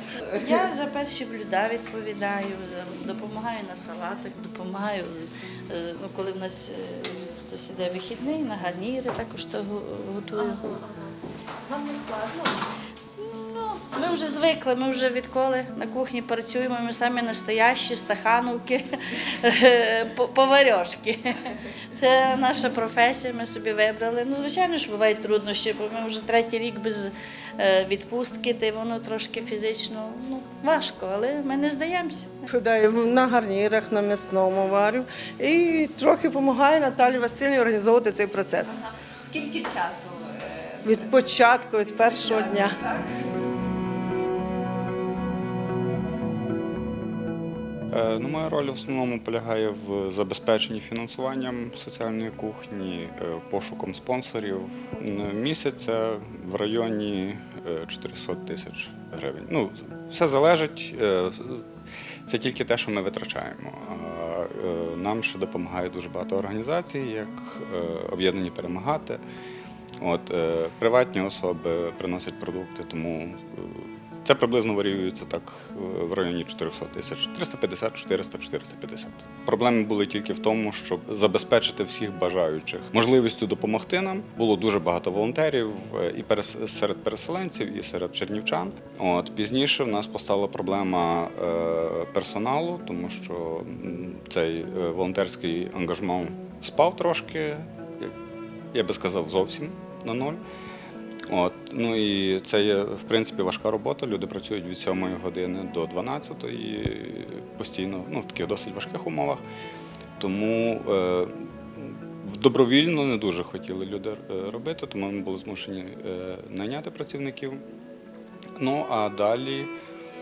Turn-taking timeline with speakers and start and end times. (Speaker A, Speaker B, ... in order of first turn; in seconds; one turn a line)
Speaker A: 0.4-10.8
Speaker A: 13.2-32.4
Speaker B: 32.5-38.8
Speaker C: 39.3-41.0
Speaker B: 40.8-42.8
Speaker C: 42.0-43.0
Speaker D: 47.9-61.6
Speaker D: 62.2-69.2
Speaker D: 70.0-98.1
Speaker D: 98.7-100.4
Speaker D: 101.3-109.4
Speaker D: 110.2-117.6
Speaker D: 118.6-119.7